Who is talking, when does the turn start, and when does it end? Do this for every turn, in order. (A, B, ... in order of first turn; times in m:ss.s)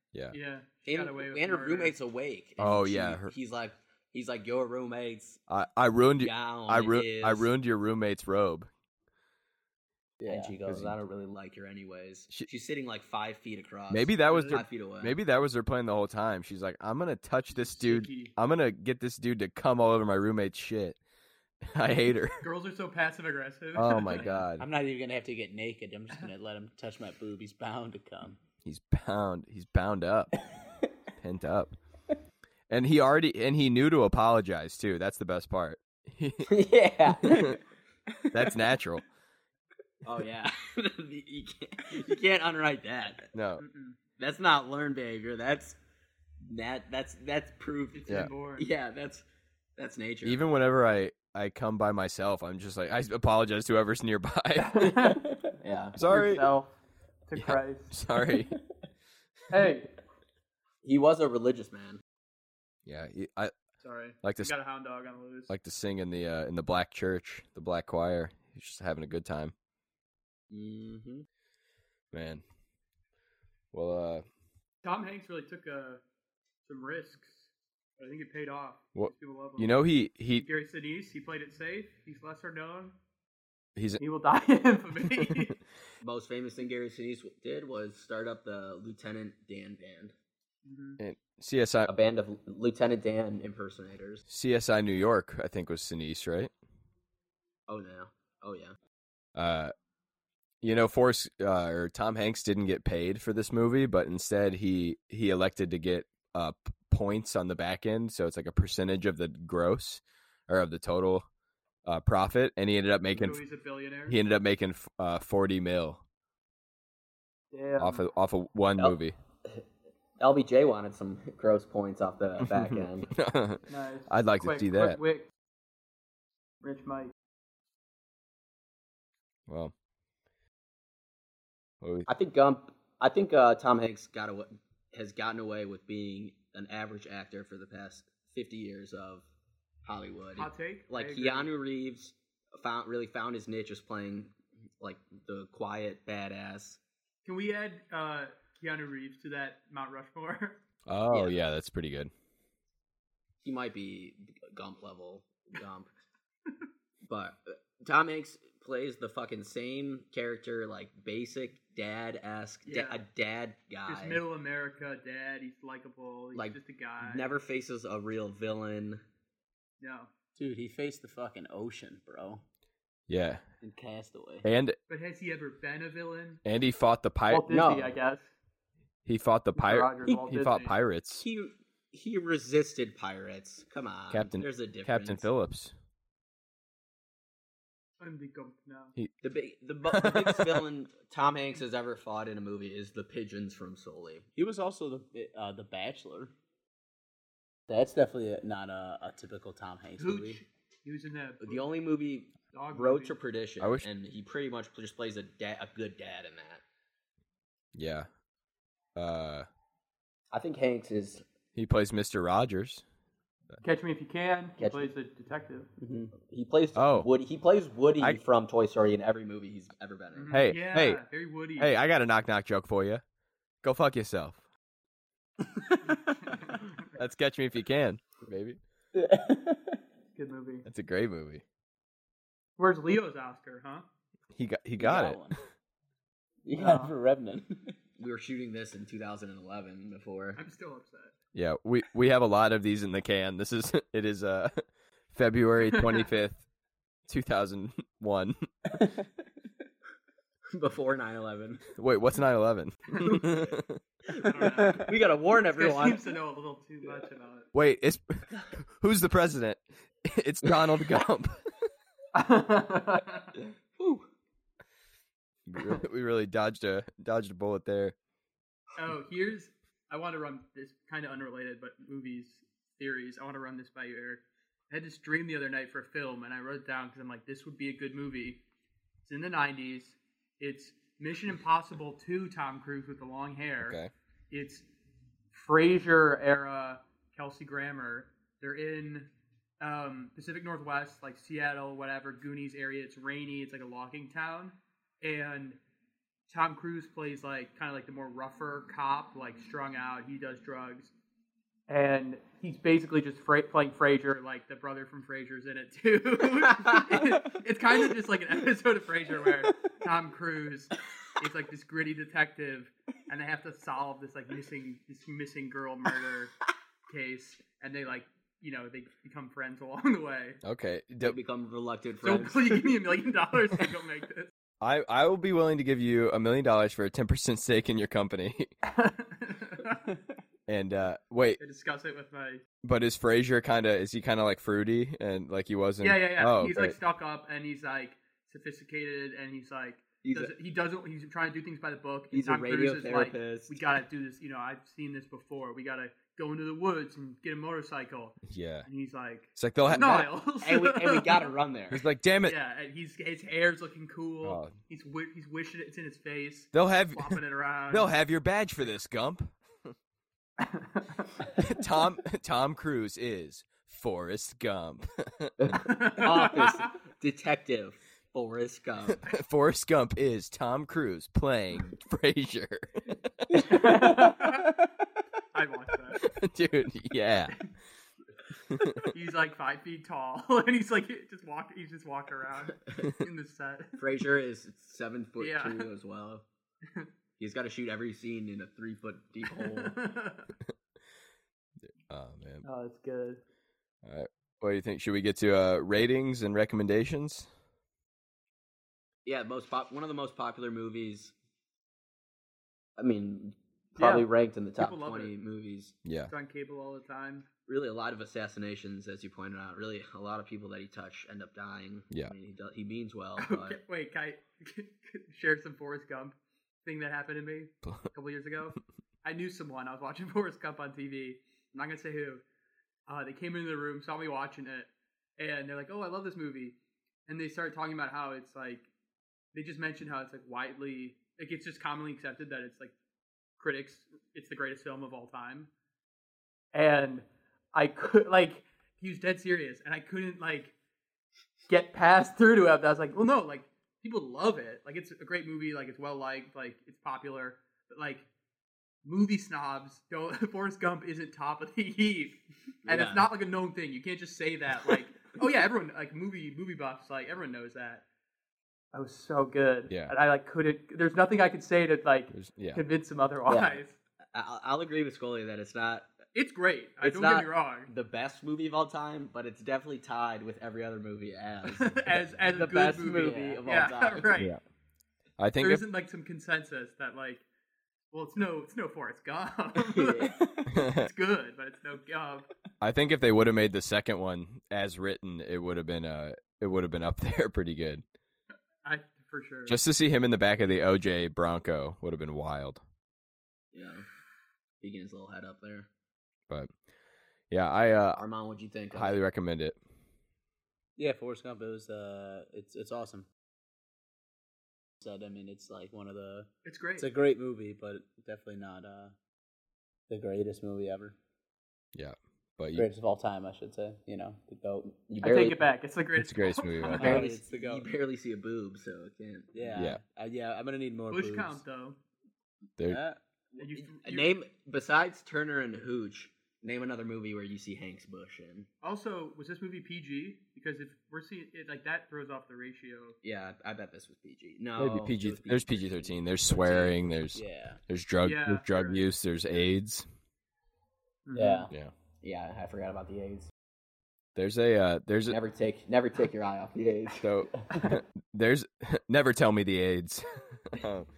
0:00.3-0:01.9 A
0:00.8-0:05.4 B
0:02.6-0:03.3 C
0:05.5-0:08.7 C
0:06.2-0:07.5 B
0:10.2-0:10.8 D
0:10.2-0:15.2 B
0:10.7-0:11.0 C
0:13.9-0:21.0 C
0:14.3-0:14.6 A
0:17.6-0:18.3 A
0:21.6-0:22.4 C
0:22.4-0:24.4 A
0:23.8-0:24.7 C
0:24.6-0:28.4 D
0:28.6-0:30.4 C
0:31.2-0:31.7 C
0:32.7-0:36.5 C
0:36.4-0:37.6 B
0:37.2-0:37.6 C
0:38.3-0:39.0 C
0:40.0-0:43.3 B
0:43.3-0:43.6 C
0:43.6-0:44.0 A
0:44.2-0:45.8 B
0:46.4-0:49.2 B
0:47.9-0:48.7 A
0:49.8-0:50.4 B
0:50.2-0:55.1 C
0:54.6-0:55.3 A
0:55.6-0:56.0 B
0:56.0-0:56.5 C
0:56.1-0:56.7 A
0:57.3-0:57.9 A
0:57.4-0:58.6 C
0:59.5-0:59.9 A
1:00.8-1:02.0 B
1:02.9-1:03.5 C
1:03.8-1:05.5 A
1:04.2-1:04.5 C
1:05.5-1:09.5 C
1:10.5-1:11.2 B
1:12.1-1:12.4 C
1:13.7-1:14.2 C
1:14.8-1:16.0 A
1:16.6-1:19.7 A
1:19.0-1:20.5 C
1:20.4-1:23.0 A
1:23.8-1:24.0 C
1:24.0-1:25.6 A
1:25.1-1:25.4 C
1:26.0-1:30.1 B
1:30.6-1:31.0 A
1:31.0-1:31.9 C
1:31.9-1:34.2 B
1:34.3-1:36.5 C
1:37.7-1:38.8 B
1:39.4-1:39.7 C
1:40.6-1:51.3 C
1:51.9-1:53.4 C
1:53.1-1:54.2 A
1:54.1-1:56.0 C
1:57.5-1:58.0 A
1:57.8-1:59.2 C
1:58.8-1:59.6 B
2:00.2-2:03.1 B
2:02.4-2:05.0 C
2:03.7-2:05.3 A
2:06.6-2:07.1 A
2:09.5-2:09.7 C
2:11.8-2:12.1 C
2:12.1-2:19.2 B
2:19.8-2:26.8 B
2:20.4-2:21.5 A
2:27.2-2:30.6 A
2:30.9-2:32.1 C
2:31.1-2:31.4 B
2:33.4-2:35.9 B
2:37.1-2:44.2 B
2:42.7-2:43.0 A
2:43.9-2:47.3 A
2:46.3-2:49.0 B
2:49.8-2:50.1 A
2:50.4-2:52.4 D
2:53.1-2:53.4 C
2:53.6-2:54.5 D
2:54.4-2:54.8 C
2:54.9-2:56.4 A
2:56.4-2:57.5 C
2:57.3-2:58.3 A
2:57.5-2:57.9 B
2:59.1-3:01.2 C
2:59.6-3:00.8 A
3:00.1-3:00.3 B
3:01.2-3:05.3 B
3:04.1-3:05.7 C
3:08.0-3:08.9 A
3:09.2-3:14.2 B
3:09.9-3:10.6 C
3:14.4-3:16.3 D
3:17.7-3:20.4 D
3:20.0-3:21.7 A
3:21.4-3:26.6 B
3:22.5-3:23.2 A
3:23.6-3:23.9 C
3:27.8-3:28.1 C
3:29.0-3:29.5 C
3:30.3-3:31.2 B
3:31.6-3:32.8 C
3:33.6-3:35.7 A
3:34.6-3:34.9 B
3:35.8-3:40.4 B
3:36.8-3:37.1 C
3:40.2-3:41.7 A
3:40.3-3:41.0 C
3:41.6-3:43.0 C
3:43.6-3:44.4 C
3:45.9-3:46.3 D
3:46.4-3:46.9 A
3:46.9-3:48.6 C
3:48.9-3:49.8 D
3:50.2-3:50.6 A
3:50.6-3:51.4 C
3:52.6-3:53.8 A
3:54.3-3:55.4 C
3:54.8-3:55.4 D
3:56.4-3:57.8 D
3:56.6-3:56.9 A
3:58.0-4:00.4 B
4:00.4-4:01.1 A
4:01.4-4:06.4 C
4:05.7-4:06.1 A
4:07.1-4:08.5 C
4:10.5-4:11.7 B
4:11.8-4:13.8 C
4:13.0-4:13.6 B
4:14.1-4:16.0 B
4:14.3-4:17.5 A
4:17.5-4:21.4 C
4:22.1-4:23.3 A
4:23.8-4:24.1 B
4:25.5-4:28.0 C
4:28.8-4:38.4 A
4:39.0-4:43.8 A
4:43.6-4:43.9 C
4:44.3-4:44.7 A
4:45.3-4:49.1 A
4:49.6-4:55.6 A
4:56.3-5:00.9 A
5:01.7-5:16.4 A
5:16.9-5:20.4 A
5:20.4-5:21.2 C
5:21.0-5:22.7 B
5:22.0-5:24.3 A
5:24.6-5:28.5 C
5:28.6-5:29.8 A
5:30.5-5:31.4 C
5:31.4-5:32.4 A
5:32.6-5:36.8 C
5:35.8-5:51.3 A
5:40.0-5:40.3 B
5:42.1-5:43.6 B
5:48.3-5:48.7 C
5:49.4-5:50.1 C
5:49.7-5:51.8 B
5:51.7-5:52.4 C
5:52.2-5:57.9 A
5:54.2-5:54.5 C
5:56.5-5:57.2 C
5:57.7-5:59.7 C
6:00.4-6:01.2 A
6:01.4-6:05.6 C
6:05.4-6:09.0 B
6:05.6-6:06.6 A
6:08.9-6:12.7 C
6:13.2-6:13.5 C
6:13.3-6:14.6 A
6:13.5-6:14.0 D
6:15.3-6:16.0 A
6:16.0-6:17.4 C
6:18.5-6:18.9 C
6:18.9-6:23.8 A
6:23.8-6:26.2 B
6:25.2-6:25.7 A
6:27.2-6:29.8 B
6:29.3-6:30.3 A
6:31.9-6:32.4 C
6:32.4-6:33.2 A
6:33.8-6:37.3 C
6:39.1-6:41.1 B
6:42.8-6:45.7 B
6:43.8-6:45.1 A
6:45.8-6:46.1 C
6:46.1-6:47.3 A
6:47.5-6:53.6 B
6:53.2-7:02.2 A
7:02.9-7:06.6 A
7:07.1-7:08.7 A
7:09.3-7:12.7 A
7:13.4-7:15.5 A
7:16.5-7:20.5 A
7:21.5-7:28.1 A
7:28.8-7:37.8 A
7:32.7-7:33.1 B
7:38.7-7:43.8 A
7:42.1-7:42.6 C
7:43.3-7:43.6 B
7:44.1-7:45.9 B
7:46.1-7:47.7 A
7:46.8-7:54.1 B
7:51.5-7:54.4 A
7:52.9-7:53.5 D
7:55.2-7:55.6 C
7:55.4-7:57.2 A
7:57.9-8:02.3 A
7:59.7-8:00.2 B
8:00.5-8:00.9 C
8:02.6-8:07.8 C
8:08.6-8:09.6 A
8:09.5-8:12.6 C
8:13.5-8:13.8 B
8:14.6-8:15.7 B
8:17.3-8:18.0 C
8:18.0-8:19.0 B
8:18.7-8:19.6 C
8:20.8-8:23.1 D
8:24.8-8:28.9 D
8:26.4-8:26.9 A
8:29.9-8:31.0 D
8:31.8-8:32.7 C
8:32.6-8:34.8 D
8:34.9-8:35.4 B
8:35.0-8:37.0 A
8:36.0-8:37.0 C
8:36.7-8:39.7 B
8:36.8-8:37.6 D
8:39.3-8:41.4 D
8:40.9-8:41.8 A
8:42.7-8:43.0 D
8:43.4-8:44.1 A
8:43.4-8:48.5 B
8:48.6-8:53.0 A
8:53.0-8:56.8 B
8:54.6-8:59.8 C
8:57.1-8:57.6 D
8:58.0-8:58.9 A
9:01.1-9:01.5 A
9:01.2-9:01.5 D
9:02.0-9:03.3 B
9:04.2-9:05.2 C
9:05.1-9:07.1 B
9:07.0-9:10.9 C